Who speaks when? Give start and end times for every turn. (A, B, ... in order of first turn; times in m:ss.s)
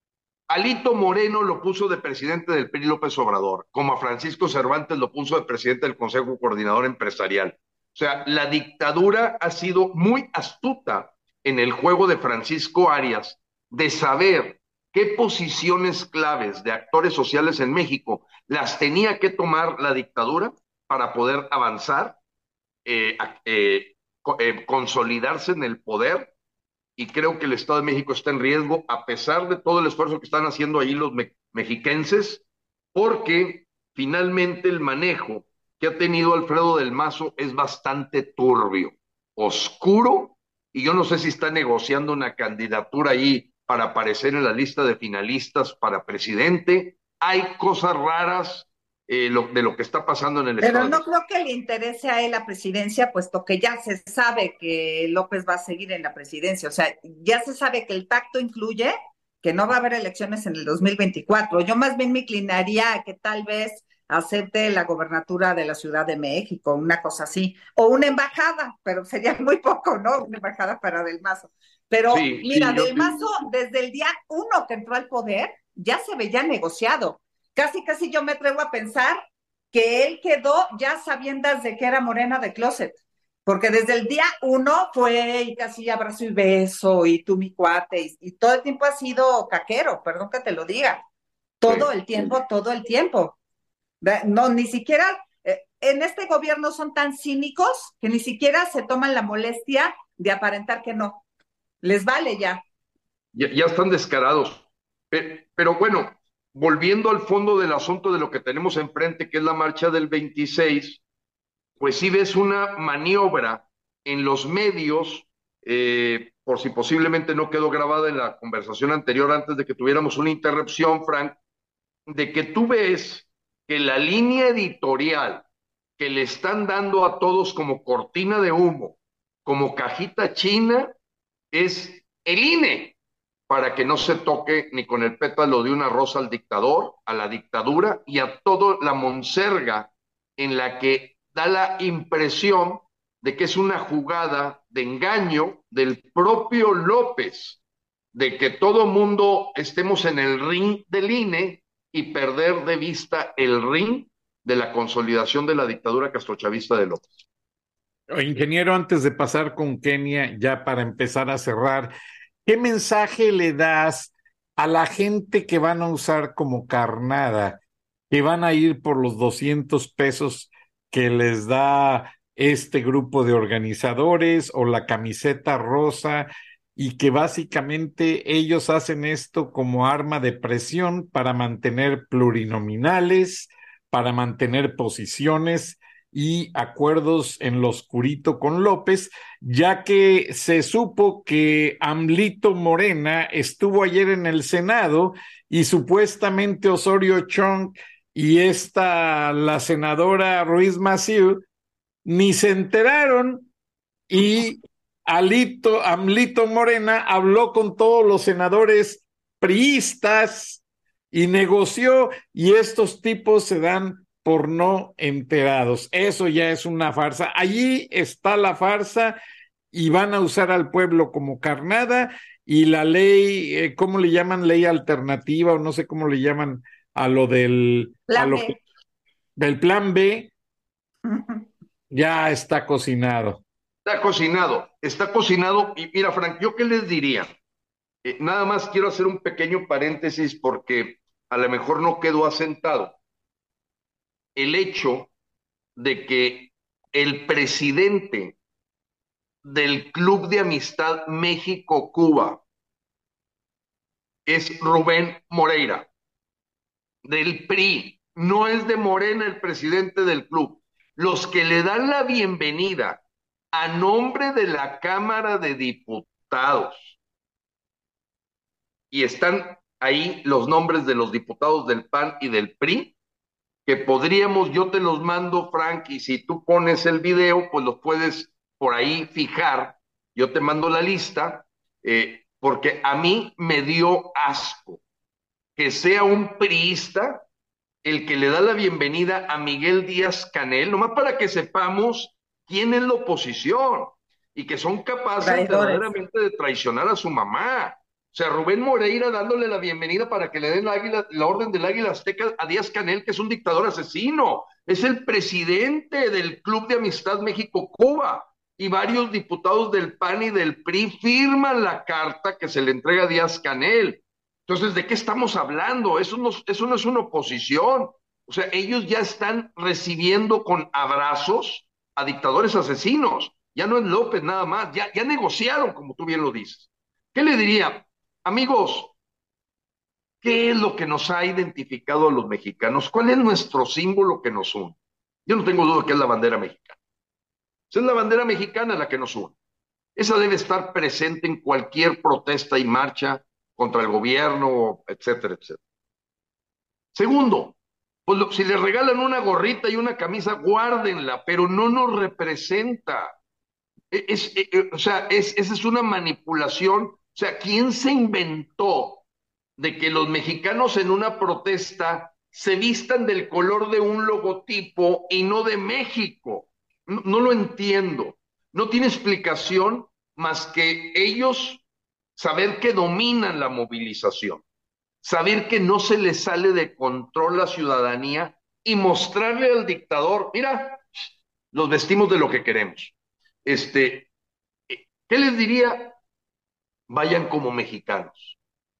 0:00.5-0:22.2 A
0:22.8-0:26.3 A
0:27.0-0:32.4 A
0:32.9-0:51.0 A
0:50.6-1:31.0 B
1:12.1-1:13.2 A
1:31.6-1:33.4 B
1:31.6-1:32.3 A
1:34.0-1:41.2 B
1:41.8-1:42.6 B
1:43.3-1:51.0 A
1:51.8-2:01.4 A
2:02.1-2:05.4 A
2:06.0-2:10.9 A
2:11.5-2:12.9 A
2:13.5-2:27.6 A
2:28.1-2:37.1 A
2:38.1-2:41.9 C
2:42.4-2:47.6 C
2:48.1-3:21.4 C
3:22.0-3:23.5 C
3:24.1-3:39.2 C
3:39.7-3:48.5 C
3:48.1-3:48.6 B
3:49.4-3:50.3 C
3:51.0-3:51.4 B
3:51.9-3:53.4 C
3:53.8-3:57.3 A
3:58.0-4:03.0 A
4:04.4-4:05.1 A
4:05.8-4:08.4 A
4:09.4-4:12.4 A
4:14.2-4:15.9 A
4:17.0-4:23.0 A
4:23.5-4:26.9 A
4:28.9-4:32.9 A
4:33.6-4:44.8 A
4:45.6-4:47.2 A
4:47.8-5:28.9 A
4:55.2-4:55.8 B
5:30.2-5:36.8 A
5:37.7-5:39.3 A
5:40.0-5:45.6 A
5:46.9-5:47.5 A
5:48.1-5:53.1 A
5:53.9-5:59.0 A
5:59.6-6:11.6 A
6:12.2-6:14.4 A
6:15.0-6:20.8 A
6:21.5-6:22.9 A
6:23.4-6:24.1 A
6:24.7-6:26.0 A
6:26.9-6:28.4 A